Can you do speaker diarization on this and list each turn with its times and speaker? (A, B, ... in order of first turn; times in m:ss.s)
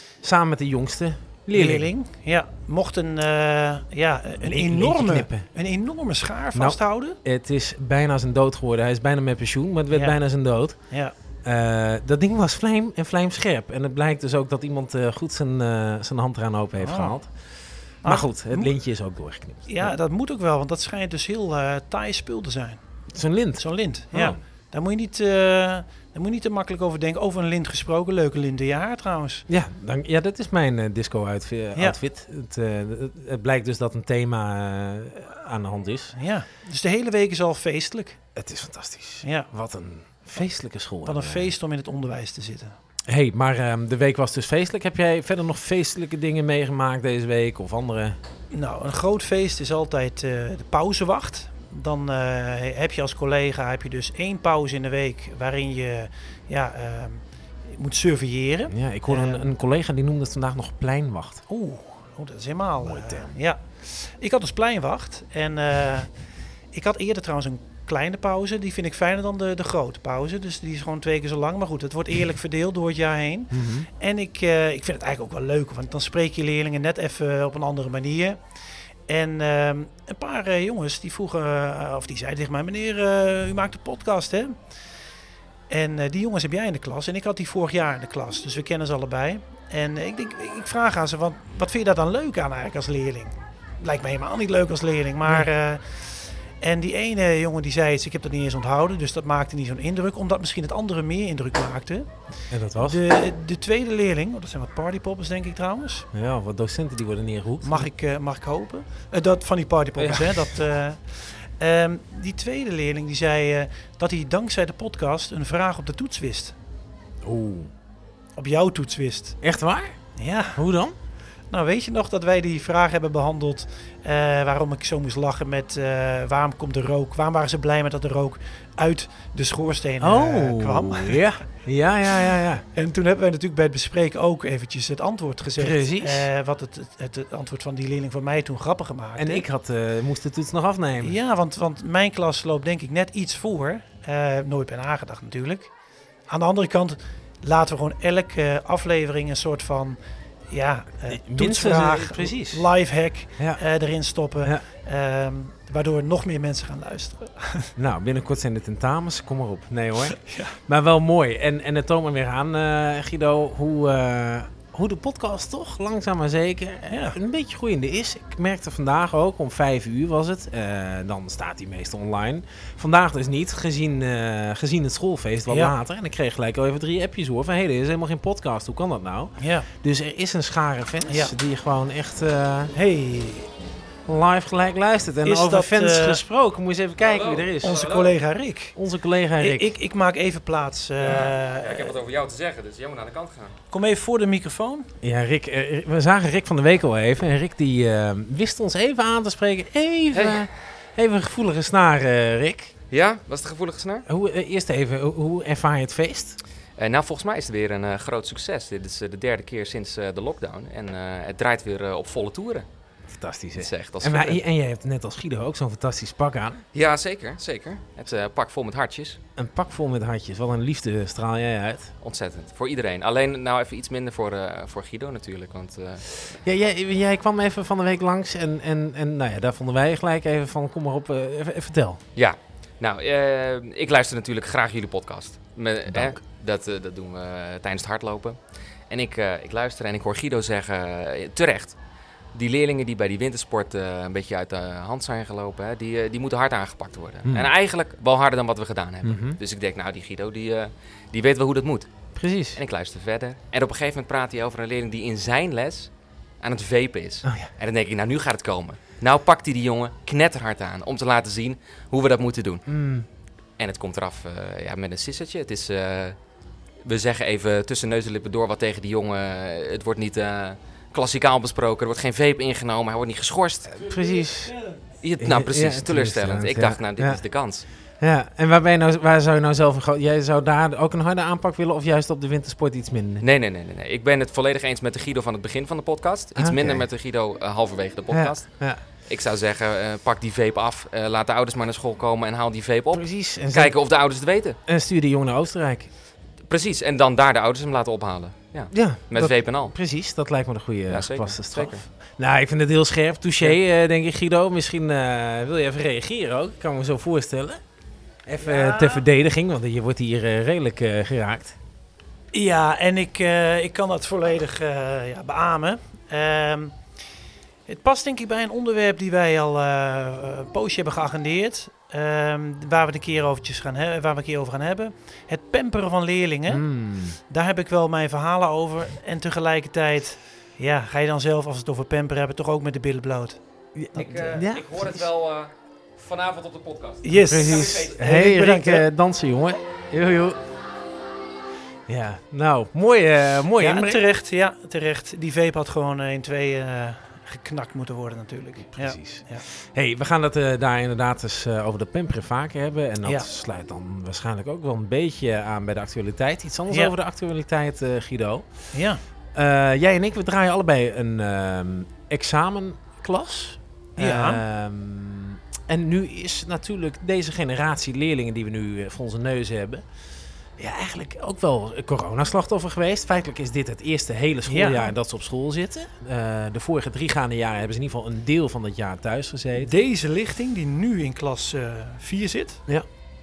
0:00.2-0:01.9 A
0:01.5-0:07.2 B
0:04.4-0:05.5 A
0:06.5-0:10.8 A
0:09.9-0:10.2 B
0:10.9-0:11.1 B
0:11.4-0:17.3 A
0:16.8-0:17.2 B
0:18.0-0:18.8 B
0:18.0-0:19.9 A
0:19.6-0:22.8 B
0:23.1-0:24.4 A
0:23.6-0:29.5 B
0:29.5-0:36.1 A
0:31.7-0:32.0 B
0:36.1-0:38.2 B
0:38.4-0:41.5 A
0:39.2-0:39.5 B
0:41.0-0:42.8 B
0:43.1-0:48.2 A
0:48.5-0:59.5 B
0:58.7-1:01.4 A
1:01.5-1:06.1 B
1:02.8-1:03.3 A
1:06.7-1:18.4 B
1:13.5-1:13.9 A
1:19.1-1:24.6 B
1:25.7-1:42.1 B
1:42.5-1:43.0 A
1:42.7-1:46.1 B
1:46.1-1:47.9 A
1:47.6-1:56.5 B
1:50.0-1:50.5 A
1:57.2-1:57.7 A
1:58.4-1:59.4 B
1:59.4-1:59.9 A
2:00.2-2:00.6 B
2:00.5-2:00.9 A
2:01.5-2:11.3 B
2:10.0-2:12.6 A
2:12.7-2:19.5 B
2:15.6-2:16.3 A
2:19.2-2:21.2 A
2:21.0-2:25.7 B
2:26.3-2:37.7 B
2:31.1-2:32.7 A
2:37.8-3:02.7 A
2:40.1-2:40.6 B
2:46.9-2:47.2 B
2:55.5-2:55.7 B
2:59.4-2:59.7 B
3:01.0-3:01.3 B
3:02.7-3:03.5 B
3:04.0-3:07.9 A
3:05.2-3:06.2 B
3:07.0-3:08.1 C
3:07.6-3:08.8 B
3:08.8-3:09.7 A
3:09.4-3:11.9 B
3:11.0-3:13.6 C
3:13.7-3:14.9 B
3:15.0-3:22.7 A
3:20.1-3:20.4 C
3:22.9-3:24.0 C
3:24.0-3:26.4 A
3:26.8-3:32.6 C
3:33.1-3:36.6 A
3:33.6-3:34.4 C
3:36.7-3:39.2 C
3:39.4-3:41.9 A
3:42.0-3:46.4 C
3:46.4-3:52.0 A
3:52.1-3:58.4 C
3:55.9-3:56.2 A
3:58.9-4:01.8 C
4:02.3-4:11.9 C
4:07.2-4:07.5 A
4:09.0-4:09.4 A
4:12.2-4:12.6 A
4:12.5-4:15.9 C
4:16.4-4:22.7 C
4:17.2-4:17.5 A
4:22.6-4:23.1 A
4:23.6-4:26.2 C
4:26.8-4:33.8 C
4:33.8-4:37.2 A
4:35.0-4:37.6 C
4:38.0-4:43.2 A
4:43.2-4:54.6 C
4:46.4-4:46.8 A
4:48.1-4:48.8 A
4:52.9-4:53.8 A
4:54.6-4:55.9 A
4:56.5-4:59.7 C
4:58.7-5:07.6 A
5:00.9-5:01.8 C
5:08.2-5:11.6 A
5:08.4-5:09.0 B
5:12.3-5:16.8 B
5:17.7-5:26.7 B
5:26.5-5:27.2 A
5:27.2-5:33.4 B
5:33.7-5:35.0 A
5:33.9-5:38.0 C
5:37.0-5:38.9 B
5:37.1-5:40.4 A
5:41.9-5:44.0 A
5:43.6-5:49.4 B
5:48.7-5:58.4 A
5:53.0-5:53.3 B
5:56.7-5:56.9 B
5:58.7-5:59.0 B
5:59.3-6:09.8 A
6:04.0-6:04.4 B
6:10.6-6:19.7 A
6:14.5-6:14.9 B
6:19.6-6:22.6 B